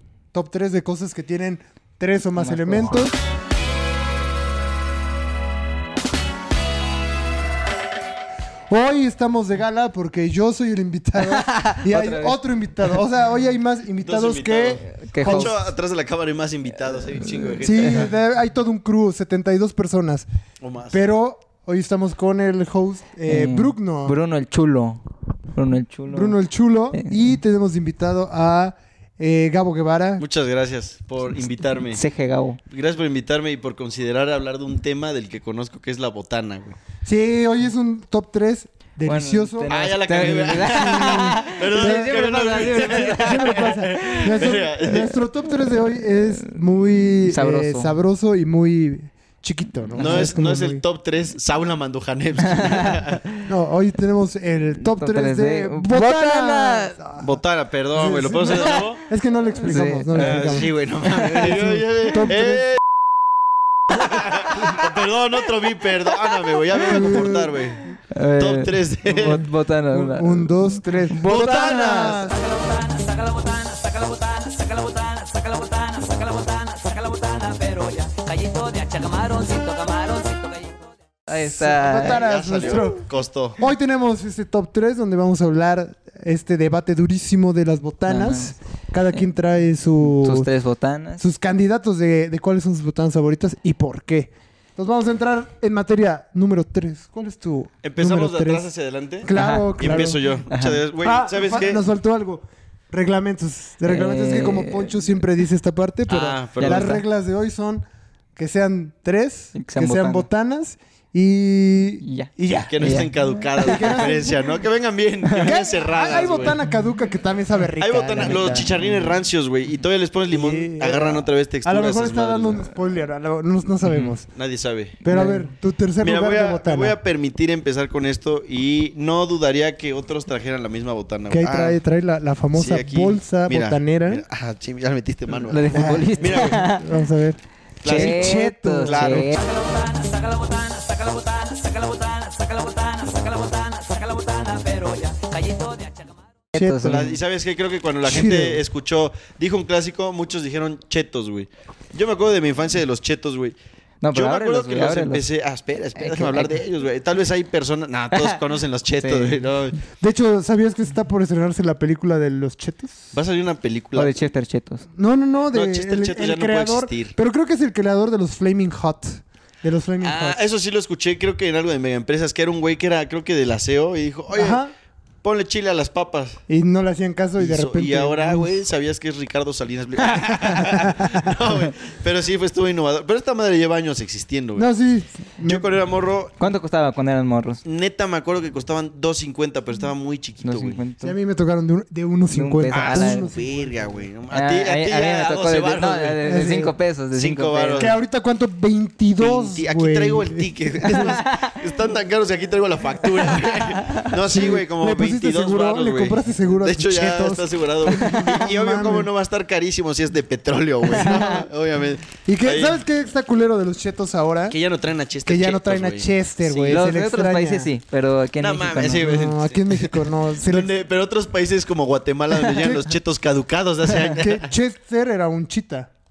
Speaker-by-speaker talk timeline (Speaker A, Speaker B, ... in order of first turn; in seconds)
Speaker A: 0.3-3.2, 8.7-15.5, 17.6-20.3, 20.9-24.2, 26.1-30.2, 37.0-42.1, 42.8-50.8, 53.4-57.3, 57.9-62.8, 66.9-67.5, 69.9-72.4, 81.3-90.5, 91.2-98.7, 99.2-100.2, 101.0-112.8, 113.6-114.4, 115.4-118.7, 120.3-124.3, 125.0-127.0, 131.3-134.2, 135.5-139.3, 146.5-147.2, 148.1-148.6, 160.0-163.1, 164.9-170.4, 174.3-174.7, 176.5-178.5, 180.4-181.5, 184.6-185.7, 191.0-194.1, 196.2-196.7, 197.8-201.2, 204.2-209.1, 210.9-211.5, 212.2-214.6, 215.2-217.7, 218.9-220.7, 222.6-222.9, 224.0-225.9
Speaker B: 2.4-3.0, 11.3-12.4, 15.0-15.6, 17.1-18.1, 23.3-25.0, 25.5-26.4, 26.9-27.4, 31.9-32.6, 39.1-44.6, 47.2-47.9, 50.0-50.4, 52.5-53.0, 54.8-57.0, 59.6-62.0, 68.1-70.6, 71.1-72.2, 81.3-82.2, 88.1-88.5, 90.0-91.2, 99.3-100.8, 103.9-105.0, 106.6-107.0, 109.6-110.3, 112.0-114.2, 115.2-115.5, 123.8-124.1, 125.1-125.5, 135.5-137.0, 137.8-139.4, 146.5-147.2, 154.0-155.2, 156.0-156.6, 158.1-158.4, 159.0-159.5, 164.0-164.8, 186.4-187.6, 190.4-191.2, 192.3-193.2, 194.3-197.9, 203.7-204.1, 211.0-211.3, 216.7-219.2
Speaker C: 14.0-18.1, 20.6-21.0, 30.2-32.0, 32.7-36.8, 39.7-45.2, 50.0-53.3, 57.2-59.0, 60.1-62.8, 63.9-67.8, 68.4-69.5, 71.2-72.2, 82.0-83.6, 97.8-101.8, 106.1-107.0, 112.7-116.6, 117.8-122.7, 124.3-125.0, 126.0-131.8, 132.5-136.7, 137.8-139.3, 146.9-153.6, 154.1-159.8, 163.1-164.1, 165.5-167.1, 170.0-174.6, 175.2-176.4, 177.4-184.7, 185.5-186.3, 187.7-190.8, 192.7-196.2, 197.1-198.0, 199.2-212.8, 214.5-216.8, 218.4-224.5
Speaker D: 72.1-80.9, 139.3-146.2